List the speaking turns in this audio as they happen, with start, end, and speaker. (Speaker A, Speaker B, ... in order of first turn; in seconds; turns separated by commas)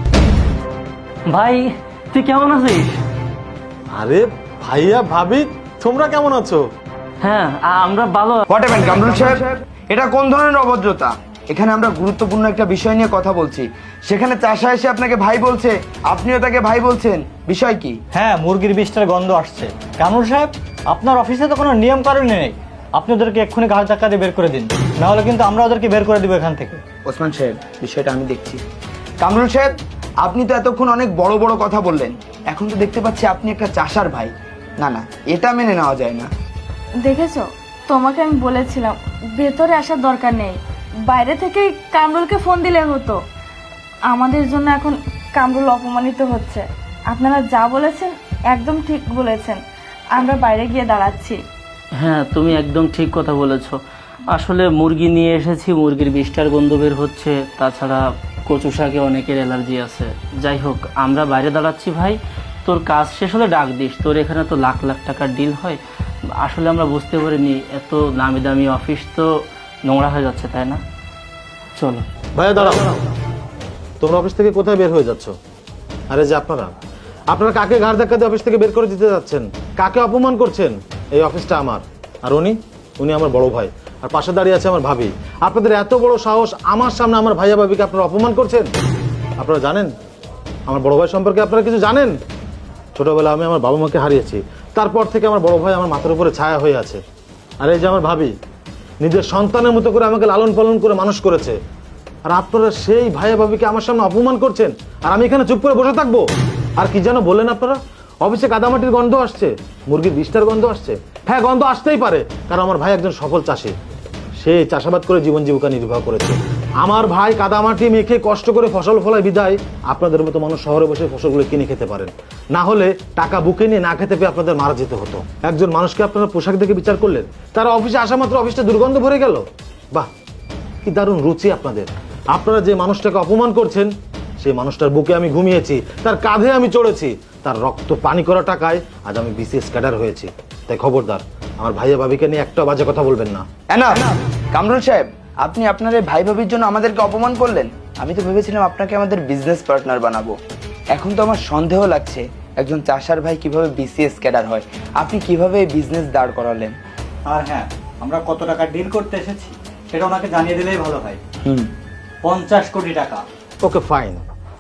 Speaker A: 1.3-3.0, Speaker B: 3.9-6.6, Speaker A: 7.2-8.4, Speaker C: 8.5-18.0, Speaker D: 18.1-26.8, Speaker C: 27.1-28.6, Speaker C: 29.2-29.7, Speaker C: 30.2-36.3, Speaker E: 37.0-43.2, Speaker E: 44.1-49.6, Speaker E: 50.1-51.4, Speaker A: 52.0-53.8, Speaker A: 54.3-65.8, Speaker A: 66.4-69.3, Speaker A: 69.9-70.8, Speaker A: 71.8-72.0, Speaker B: 72.3-72.9, Speaker B: 74.0-75.3, Speaker B: 76.1-76.7, Speaker B: 77.3-88.7, Speaker B: 89.4-89.9, Speaker B: 90.7-92.1, Speaker B: 93.0-97.0, Speaker B: 97.6-98.3, Speaker B: 99.0-101.6, Speaker B: 102.3-106.2, Speaker B: 106.8-113.7, Speaker B: 114.4-130.1, Speaker B: 130.8-143.4, Speaker C: 143.7-150.3, Speaker C: 150.9-156.8, Speaker D: 157.3-161.2, Speaker D: 162.2-163.2, Speaker B: 163.6-164.2